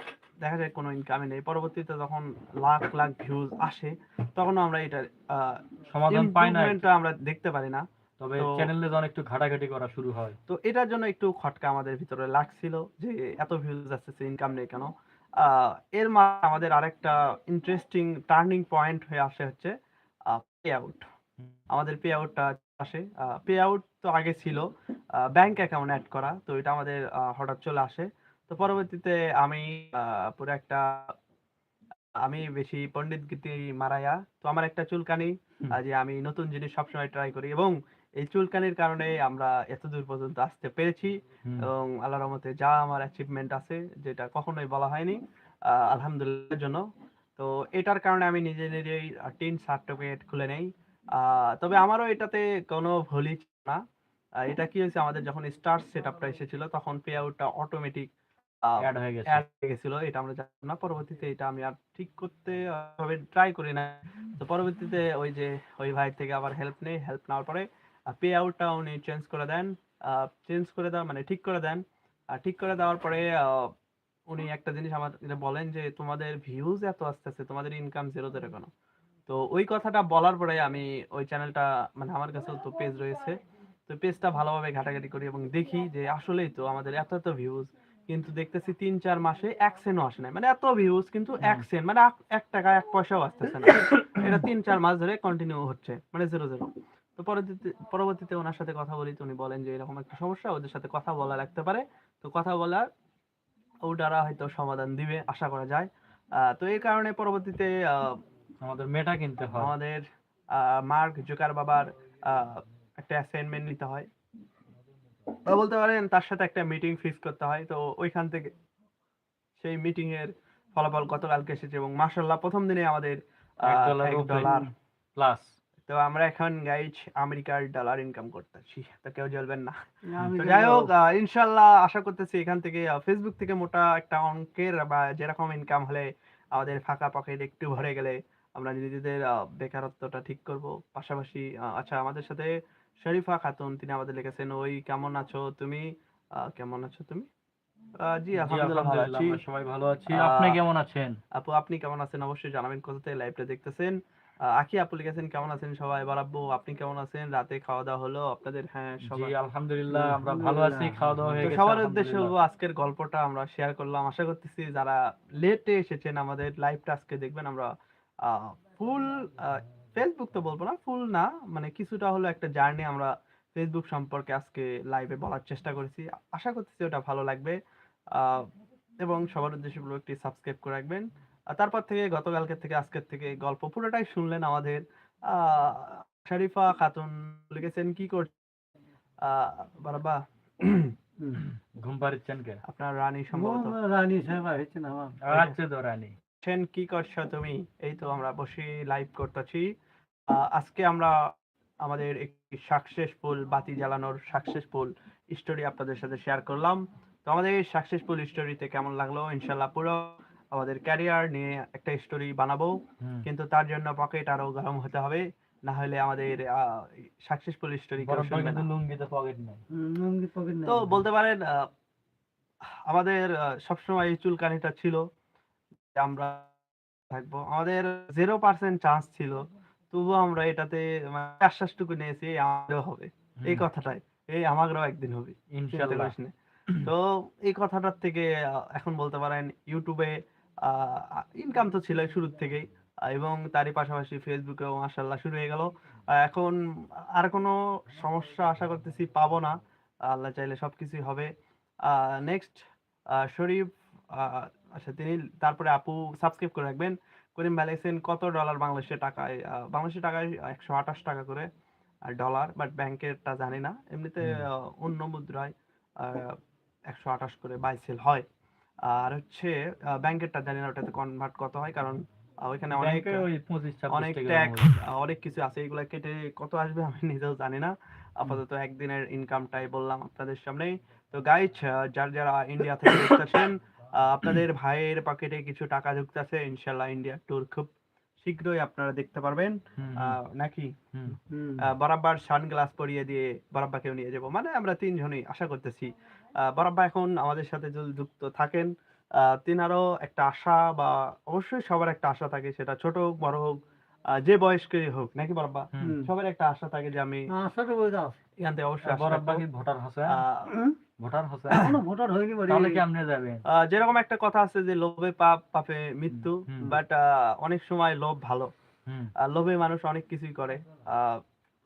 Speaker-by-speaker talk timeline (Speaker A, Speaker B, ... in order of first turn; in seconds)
Speaker A: 0.4-7.8, 8.4-8.7, 10.5-19.7, 20.3-21.1, 21.7-31.1, 32.2-46.9, 47.4-53.8, 54.4-58.1, 58.6-73.7, 74.3-78.7, 79.3-102.9, 103.8-108.2, 109.5-114.1, 115.5-118.5, 119.6-124.7, 125.9-147.3, 148.0-149.4, 150.1-150.6, 151.3-153.9, 154.5-159.3, 161.4-167.7, 168.2-177.6, 178.1-178.5, 179.0-188.3, 189.2-190.9, 192.6-193.8, 196.4-199.7, 200.3-201.3, 201.8-218.7, 220.7-221.7, 222.9-225.0, 225.9-226.5, 227.1-251.3, 251.8-261.5, 262.1-266.4, 266.9-268.2, 268.8-273.2, 273.9-290.7, 291.6-303.6, 304.1-307.3, 308.4-309.4, 310.1-310.5, 313.5-318.5, 319.2-321.2
Speaker B: 5.9-6.8, 8.2-10.4, 58.8-59.4, 108.6-109.7, 123.6-125.5, 148.4-151.2, 159.0-162.3, 191.8-192.6, 195.2-196.1, 213.0-213.2, 218.0-219.6, 235.5-236.2, 272.8-274.8, 289.8-290.2, 290.9-291.2, 305.7-306.0, 308.8-310.2, 311.0-311.8, 312.5-313.4, 316.1-316.7, 318.9-319.1
Speaker C: 130.1-130.9, 159.9-161.6, 191.2-191.4, 193.3-195.2, 219.7-221.0, 291.3-291.7, 305.8-306.1, 307.3-308.1, 310.5-310.8, 311.5-312.8